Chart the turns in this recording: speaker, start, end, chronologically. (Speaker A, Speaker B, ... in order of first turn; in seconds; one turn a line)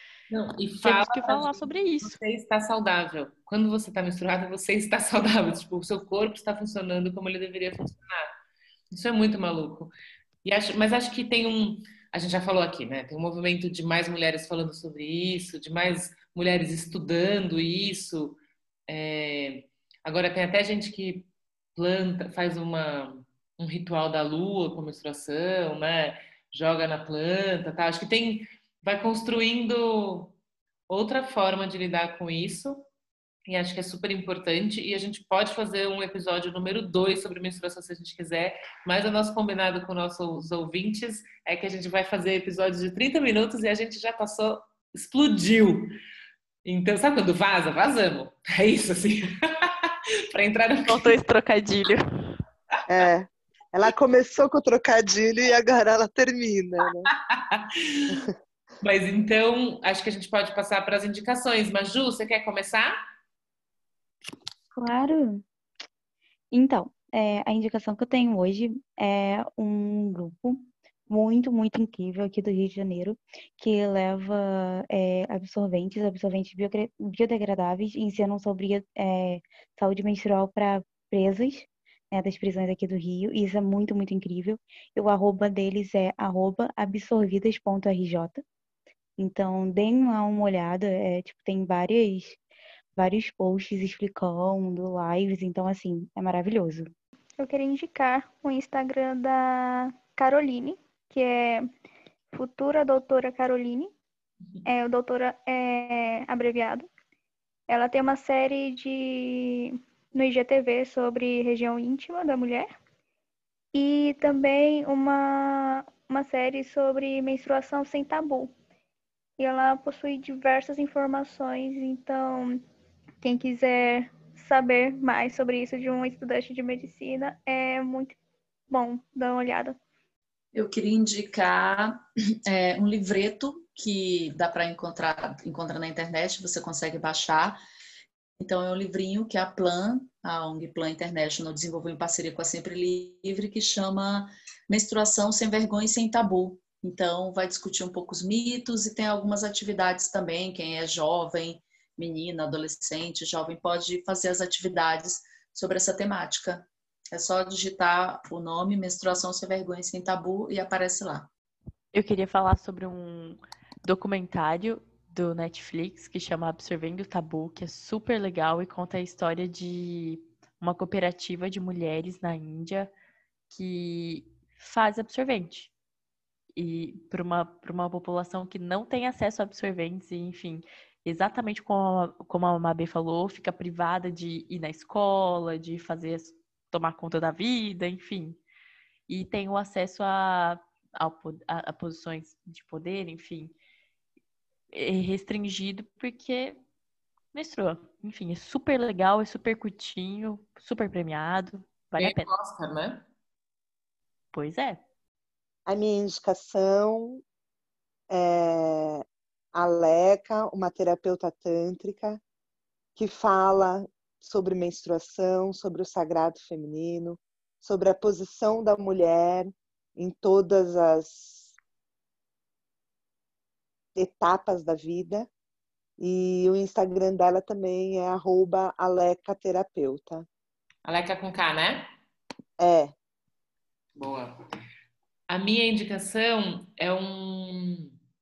Speaker A: 0.3-8.3
Speaker B: 0.8-2.2
Speaker A: 8.9-9.9
Speaker A: 10.4-30.3
Speaker A: 30.9-32.8
Speaker A: 33.5-45.9
Speaker A: 46.6-51.2
Speaker B: 50.9-52.0
Speaker C: 52.9-57.1
Speaker A: 57.3-58.1
Speaker A: 58.8-63.0
Speaker D: 64.7-65.4
Speaker D: 66.5-88.4
Speaker D: 89.2-92.4
Speaker D: 93.0-96.9
Speaker E: 97.4-101.7
Speaker E: 102.3-103.9
Speaker E: 104.6-106.9
Speaker E: 107.7-112.7
Speaker E: 113.7-118.5
Speaker E: 119.4-122.6
Speaker E: 123.2-128.2
Speaker E: 128.7-129.8
Speaker F: 130.5-137.6
Speaker F: 138.4-161.3
Speaker B: 161.9-172.9
Speaker B: 173.5-175.7
Speaker B: 176.6-188.4
Speaker B: 189.1-193.5
Speaker B: 194.7-196.6
Speaker B: 197.3-202.3
Speaker A: 202.0-203.0
Speaker B: 204.3-204.8
Speaker C: 205.7-207.2
Speaker C: 208.1-209.0
Speaker C: 209.5-212.2
Speaker C: 212.9-221.5
Speaker C: 223.9-225.3
Speaker C: 226.0-230.2
Speaker A: 230.8-231.9
Speaker C: 232.6-232.9
Speaker A: 233.9-234.4
Speaker A: 235.3-237.9